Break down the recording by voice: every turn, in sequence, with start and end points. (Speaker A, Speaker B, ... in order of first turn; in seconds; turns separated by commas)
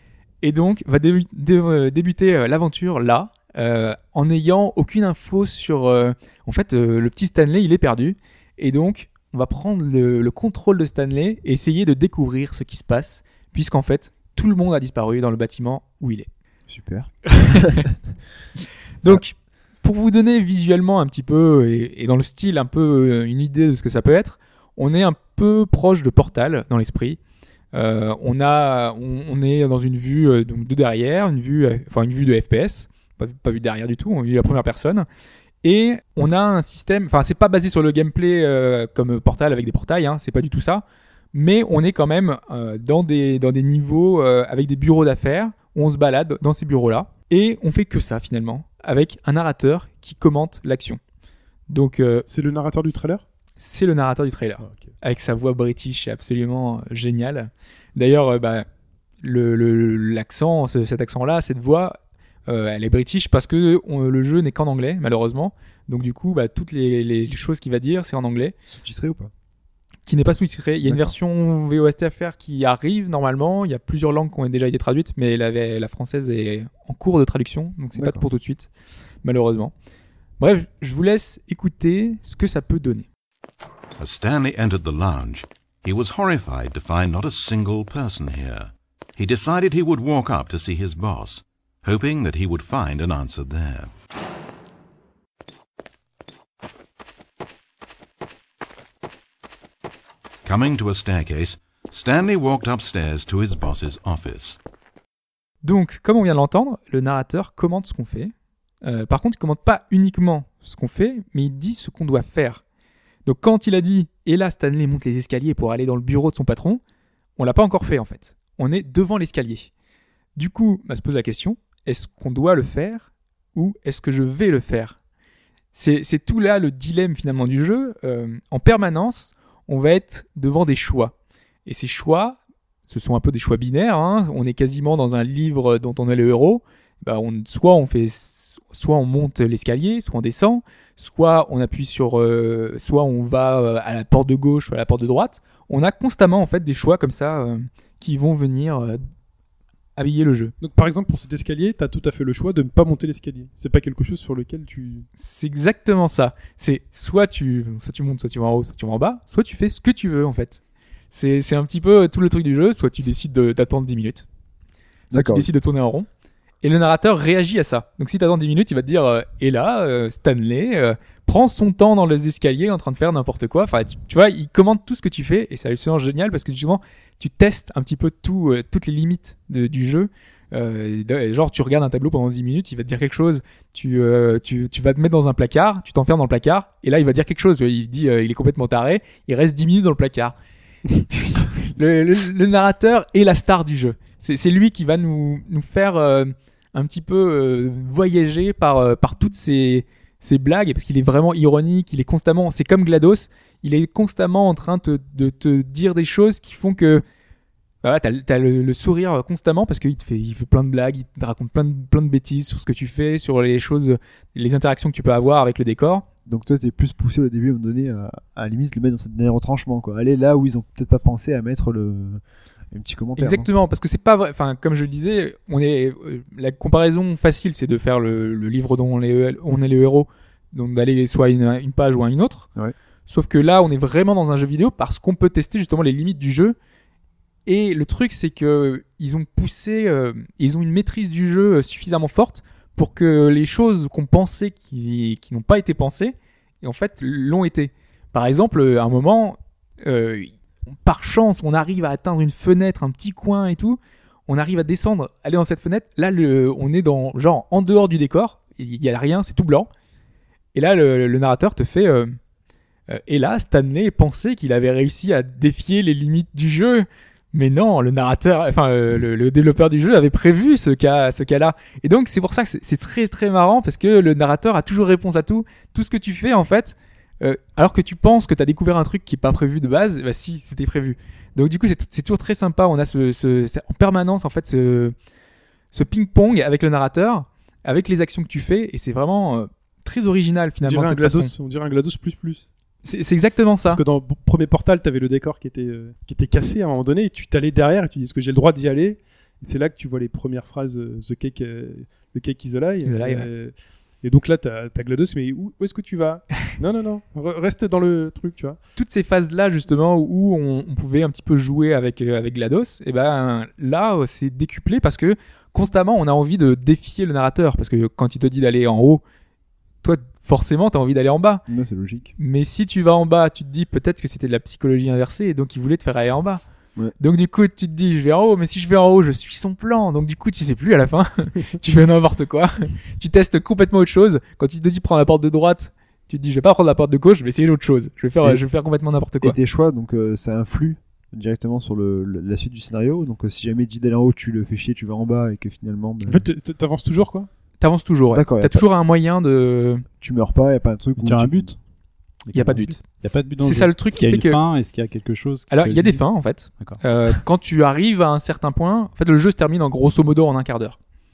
Speaker A: 0.4-16.3, Speaker B: 16.7-18.0, Speaker A: 17.4-17.8, Speaker A: 19.0-27.2, Speaker A: 27.7-35.1, Speaker A: 35.6-51.0, Speaker A: 51.7-52.3, Speaker C: 52.3-53.2, Speaker A: 53.6-58.7, Speaker C: 54.6-54.9, Speaker A: 59.2-68.5, Speaker B: 68.7-69.3, Speaker A: 70.1-78.7, Speaker B: 70.8-71.1, Speaker B: 78.0-78.3, Speaker A: 79.2-79.7, Speaker A: 80.4-83.1, Speaker D: 84.0-93.9, Speaker D: 100.5-104.6, Speaker A: 105.6-108.3, Speaker A: 108.8-112.6, Speaker A: 113.3-116.8, Speaker A: 117.4-119.7, Speaker A: 120.4-125.0, Speaker A: 125.7-131.2, Speaker A: 131.7-149.0, Speaker A: 150.0-150.5, Speaker C: 150.6-155.1, Speaker A: 155.2-164.3, Speaker B: 165.1-165.5, Speaker A: 165.1-166.1, Speaker A: 166.6-190.3, Speaker A: 190.9-207.0, Speaker A: 207.8-216.1, Speaker B: 216.3-223.5, Speaker A: 223.2-232.5, Speaker A: 233.1-236.6, Speaker A: 237.5-259.7, Speaker A: 260.5-262.1, Speaker A: 262.9-284.9, Speaker A: 285.7-291.3, Speaker C: 290.6-292.5, Speaker A: 292.8-293.8, Speaker C: 293.7-308.6, Speaker A: 302.9-303.3, Speaker A: 308.8-319.0, Speaker A: 319.8-321.4, Speaker B: 321.5-322.1, Speaker A: 322.2-326.5, Speaker A: 327.0-339.4, Speaker B: 339.2-346.3, Speaker C: 346.1-347.3, Speaker A: 347.6-349.9, Speaker B: 348.1-348.6, Speaker B: 350.0-351.5, Speaker E: 351.0-351.6, Speaker E: 352.3-356.8, Speaker A: 352.3-352.8, Speaker A: 353.4-354.4, Speaker A: 355.5-360.8